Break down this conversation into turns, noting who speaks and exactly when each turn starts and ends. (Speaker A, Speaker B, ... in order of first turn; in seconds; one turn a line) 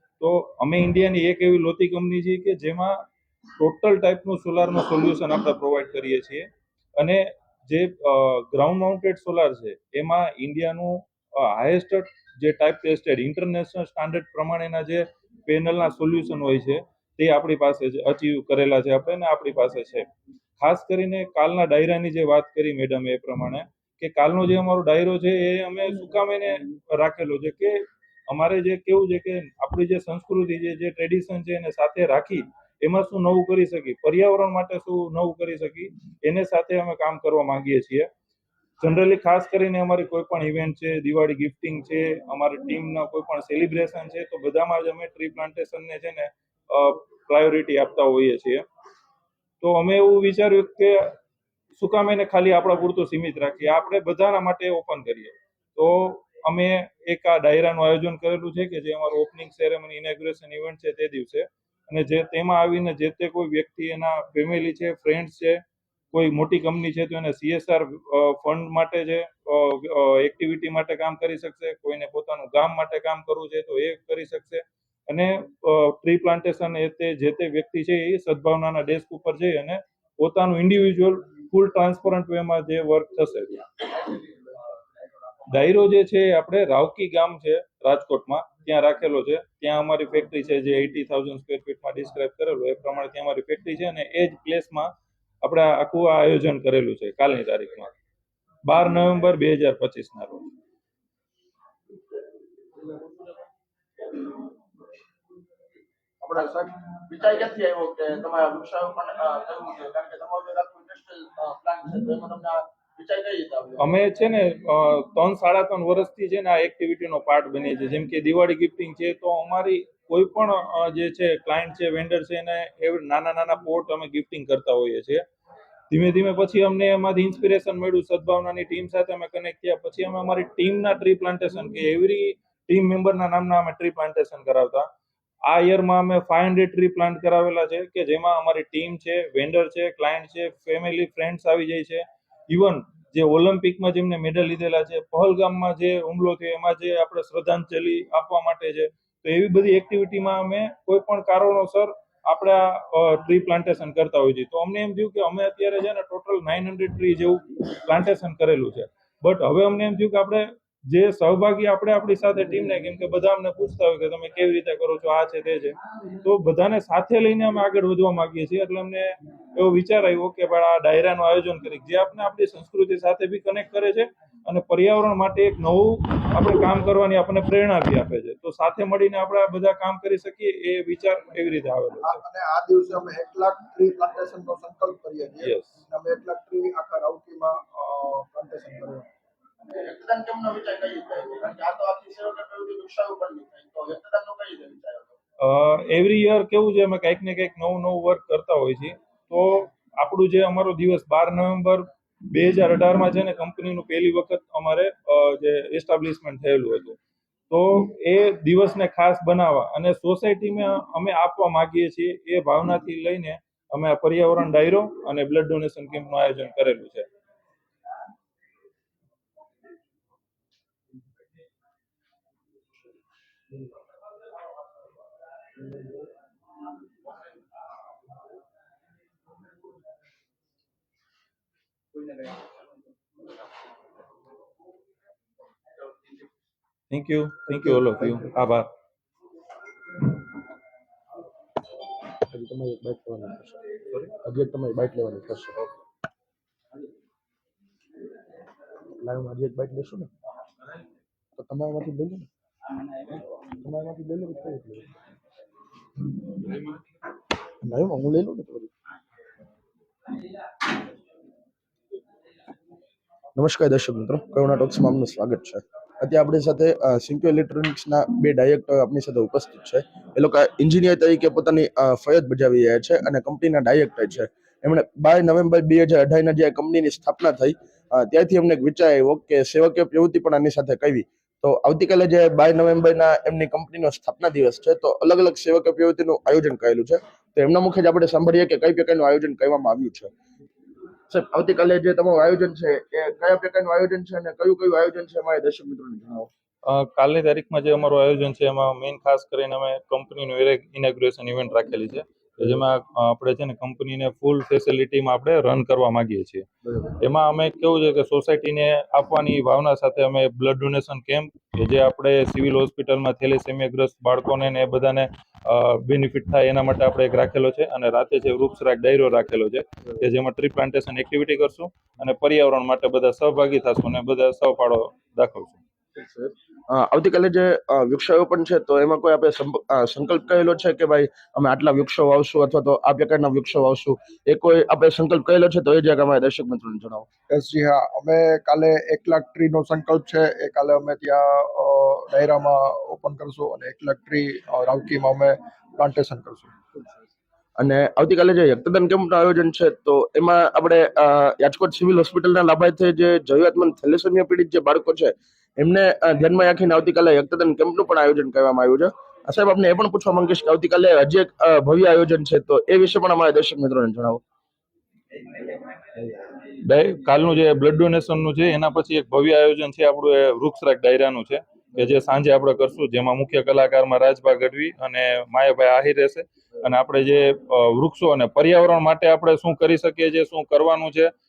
Speaker A: 0.2-3.0
Speaker A: 3.6-20.1
Speaker A: 20.6-38.1
Speaker A: 38.8-48.6
Speaker A: 49.6-51.1
Speaker A: 51.7-65.6
Speaker A: 66.1-83.7
Speaker A: 85.5-94.9
Speaker A: 95.4-97.9
Speaker A: 98.6-100.4
Speaker B: 106.2-113.9
Speaker A: 113.8-125.2
Speaker A: 125.9-134.9
Speaker A: 135.4-182.2
Speaker C: 182.0-189.1
Speaker A: 185.4-185.8
Speaker B: 189.6-195.2
Speaker A: 195.4-207.0
Speaker A: 207.5-217.1
Speaker A: 236.9-238.7
Speaker B: 242.3-243.6
Speaker B: 244.2-245.7
Speaker B: 249.0-250.1
Speaker B: 251.4-252.3
Speaker B: 253.6-254.8
Speaker C: 257.8-258.7
Speaker B: 257.9-258.4
Speaker B: 263.4-290.1
Speaker B: 291.1-296.3
Speaker A: 296.6-306.4
Speaker A: 307.0-325.6
Speaker B: 325.9-337.1
Speaker C: 337.3-346.5
Speaker B: 347.6-364.2
Speaker A: 366.6-381.1